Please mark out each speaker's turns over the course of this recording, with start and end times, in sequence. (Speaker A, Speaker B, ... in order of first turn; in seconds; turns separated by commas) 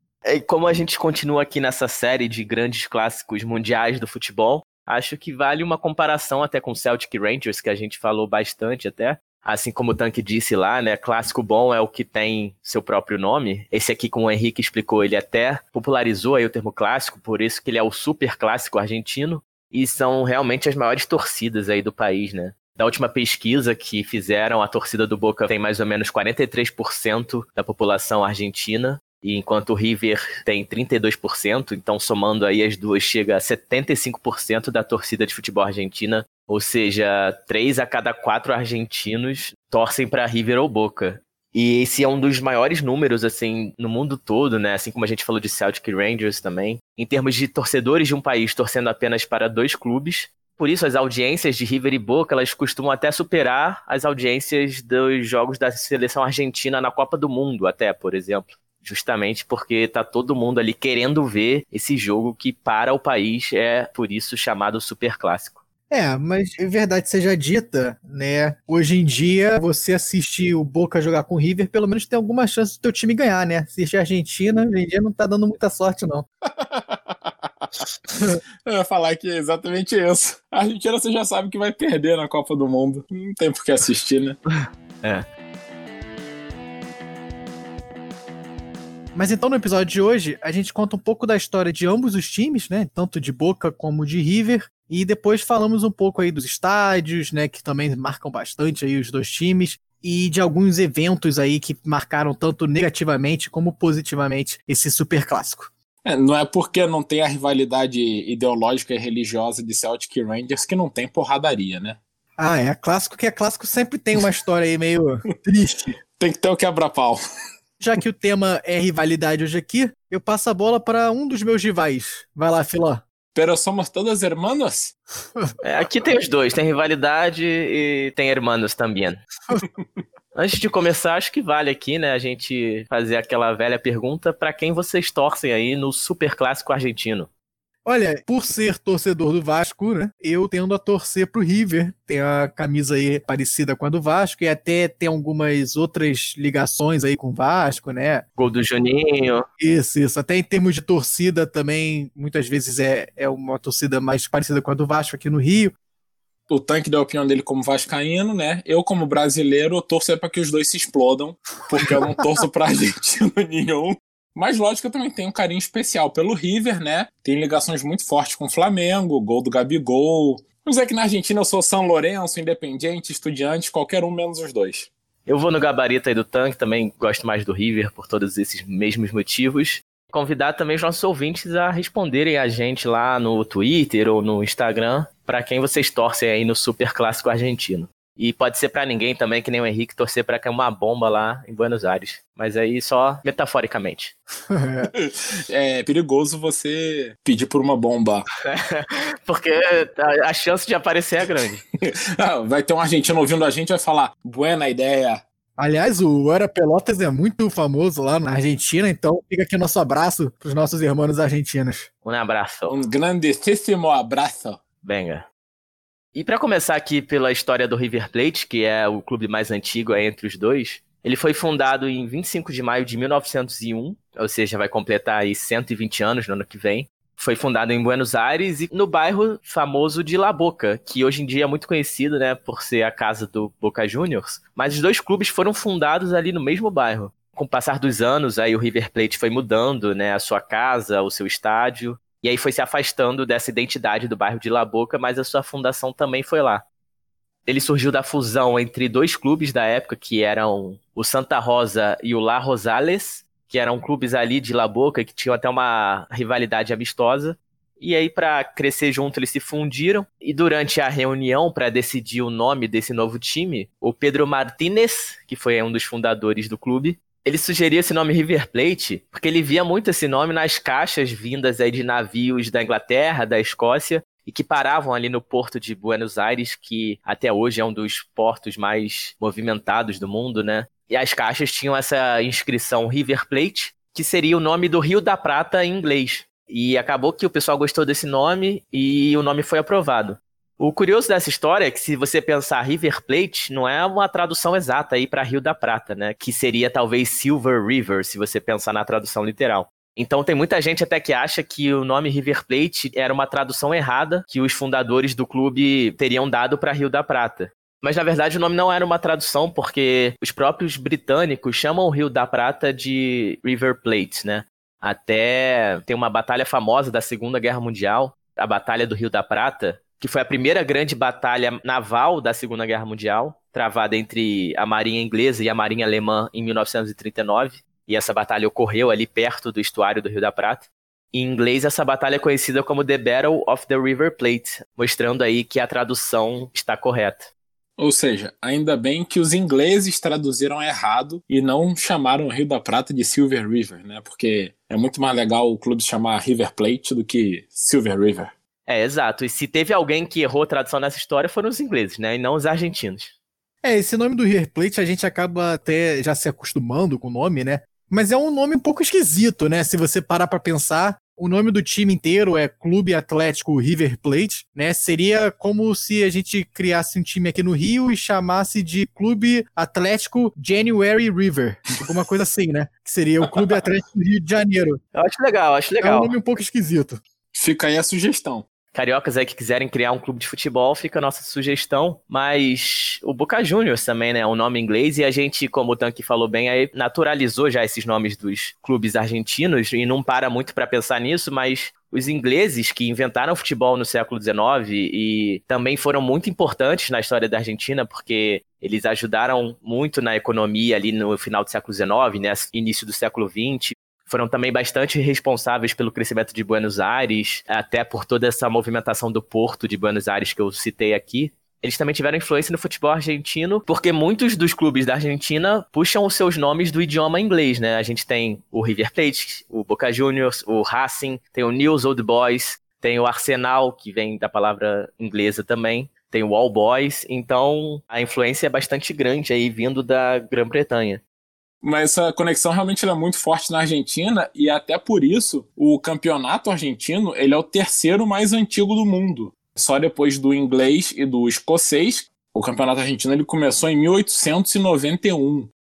Speaker A: 0.2-65.6, Speaker B: 65.9-76.3, Speaker C: 76.6-77.3, Speaker C: 78.7-84.4, Speaker B: 89.2-105.7, Speaker C: 106.0-112.0, Speaker B: 112.4-116.0, Speaker C: 116.2-117.2, Speaker B: 117.8-123.0, Speaker C: 123.3-125.0, Speaker A: 125.6-129.2, Speaker A: 130.3-137.3, Speaker B: 137.8-148.2, Speaker A: 148.4-149.5, Speaker B: 149.6-155.8, Speaker C: 156.5-174.9, Speaker A: 175.3-194.1, Speaker B: 194.5-194.9, Speaker C: 194.9-198.3, Speaker A: 198.4-201.6, Speaker C: 201.8-205.2, Speaker B: 205.6-211.9, Speaker A: 212.0-212.8, Speaker C: 212.7-214.6, Speaker A: 214.8-215.3, Speaker A: 216.2-246.7, Speaker A: 247.5-337.3, Speaker C: 337.8-348.3, Speaker A: 348.7-353.1, Speaker B: 353.6-374.8, Speaker A: 374.9-376.1, Speaker B: 375.8-377.0, Speaker C: 377.3-378.5, Speaker A: 378.7-431.0, Speaker C: 431.6-445.5